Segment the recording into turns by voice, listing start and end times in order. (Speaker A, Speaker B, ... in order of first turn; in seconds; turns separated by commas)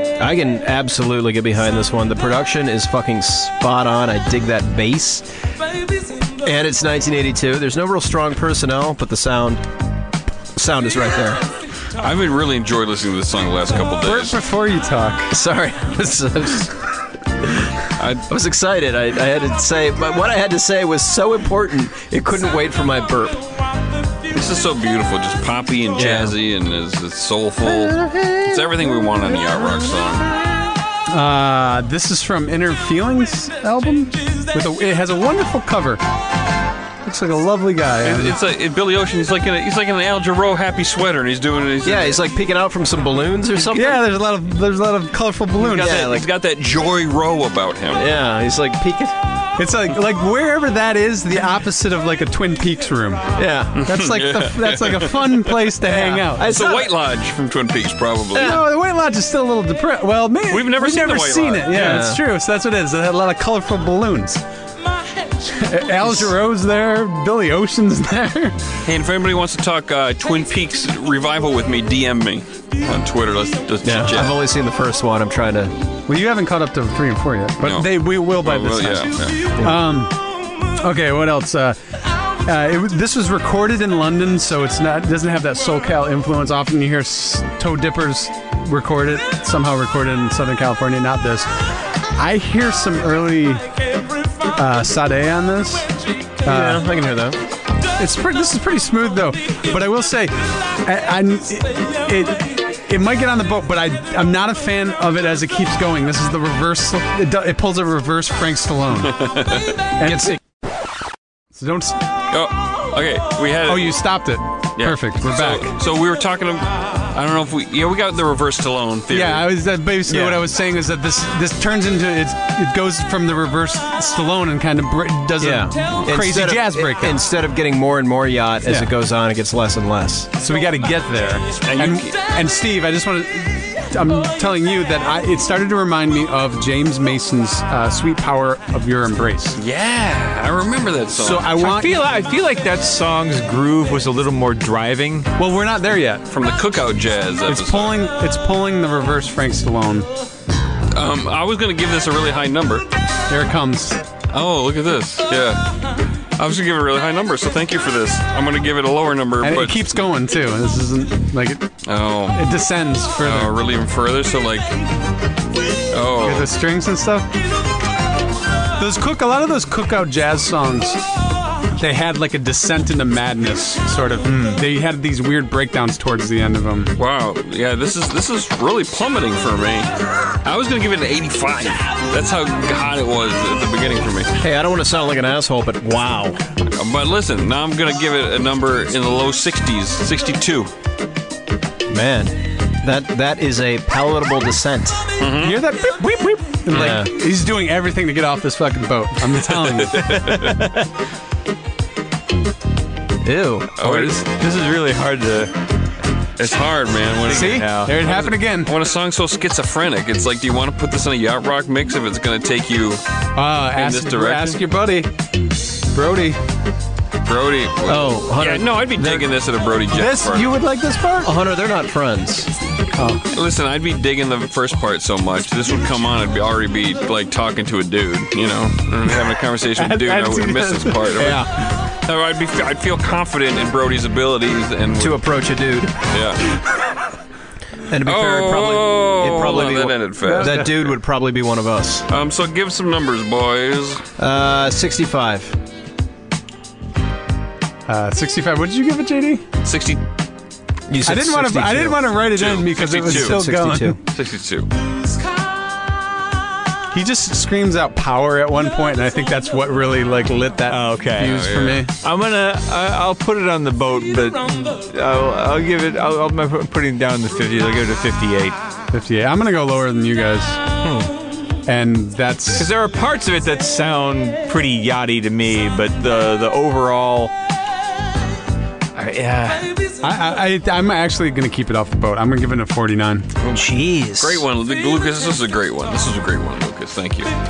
Speaker A: 0.2-5.3, Speaker A: 6.4-9.6, Speaker A: 10.6-11.4, Speaker B: 12.0-14.4, Speaker C: 14.0-15.3, Speaker A: 15.3-16.8, Speaker B: 18.0-18.2, Speaker A: 18.3-23.5, Speaker B: 24.3-30.3, Speaker A: 26.0-26.4, Speaker A: 27.8-28.4, Speaker C: 31.1-36.0, Speaker C: 37.0-38.4, Speaker B: 38.0-42.2, Speaker A: 41.8-44.0, Speaker C: 43.7-46.0, Speaker B: 45.6-48.1, Speaker A: 45.6-46.3, Speaker A: 47.9-49.1, Speaker C: 49.6-56.5, Speaker A: 53.4-53.9, Speaker B: 53.8-55.6, Speaker A: 55.8-57.0, Speaker B: 56.4-58.6, Speaker A: 58.3-58.6, Speaker C: 58.4-64.4, Speaker B: 60.5-62.0, Speaker A: 61.7-62.2, Speaker C: 65.4-68.6, Speaker B: 68.8-74.4, Speaker A: 73.8-75.8, Speaker C: 76.1-80.2, Speaker B: 77.6-79.5, Speaker C: 80.8-81.8, Speaker C: 82.4-91.5, Speaker C: 92.1-93.7, Speaker C: 94.5-96.8, Speaker A: 96.5-97.4, Speaker C: 98.0-109.4, Speaker B: 109.1-109.8, Speaker C: 110.0-110.4, Speaker C: 111.5-112.0, Speaker B: 112.3-114.0, Speaker C: 113.7-115.7, Speaker B: 114.8-119.4, Speaker C: 119.1-127.2, Speaker A: 120.1-120.4, Speaker A: 125.4-130.3, Speaker C: 130.4-139.6, Speaker B: 131.6-132.1, Speaker B: 139.6-141.5, Speaker C: 141.2-142.0, Speaker D: 141.4-145.3, Speaker C: 145.4-146.2, Speaker B: 146.3-148.0, Speaker C: 147.5-150.1, Speaker B: 150.9-152.9, Speaker C: 153.3-154.0, Speaker B: 154.3-155.7, Speaker B: 156.4-159.9, Speaker C: 159.4-161.7, Speaker B: 161.8-162.5, Speaker C: 162.3-163.5, Speaker B: 163.2-164.8, Speaker B: 165.9-166.5, Speaker C: 166.2-167.3, Speaker C: 168.8-171.0, Speaker C: 171.8-177.0, Speaker B: 177.0-179.9, Speaker B: 180.4-184.3, Speaker A: 184.4-186.4, Speaker B: 186.6-190.7, Speaker A: 191.9-195.1, Speaker B: 195.2-195.6, Speaker C: 195.4-200.2, Speaker A: 196.7-197.1, Speaker B: 199.4-200.6, Speaker D: 200.0-200.9, Speaker A: 203.2-204.1, Speaker B: 203.8-204.2, Speaker D: 203.8-205.5, Speaker B: 206.4-213.0, Speaker D: 207.3-207.9, Speaker C: 207.3-208.7, Speaker C: 213.4-215.1, Speaker B: 213.8-214.6, Speaker C: 215.9-216.4, Speaker B: 217.2-220.6, Speaker A: 217.9-219.3, Speaker C: 219.9-221.3, Speaker A: 221.2-222.5, Speaker C: 222.9-223.2, Speaker B: 223.3-235.2, Speaker C: 229.8-231.2, Speaker A: 231.2-231.5, Speaker A: 235.0-236.0, Speaker B: 236.1-236.4, Speaker A: 237.9-242.1, Speaker B: 238.0-240.9, Speaker C: 240.3-240.6, Speaker B: 242.1-244.0, Speaker A: 244.2-245.6, Speaker C: 247.9-249.4, Speaker B: 249.6-250.0, Speaker A: 250.9-252.2, Speaker C: 251.0-254.0, Speaker B: 252.3-253.4, Speaker A: 253.0-254.0, Speaker B: 254.1-254.7, Speaker C: 256.9-261.9, Speaker D: 260.7-268.6, Speaker B: 261.2-261.8, Speaker C: 268.9-270.6, Speaker A: 270.8-271.1, Speaker C: 271.6-272.7, Speaker D: 272.6-277.3, Speaker D: 279.0-279.7, Speaker C: 280.0-283.3, Speaker A: 283.5-284.5, Speaker B: 284.2-287.3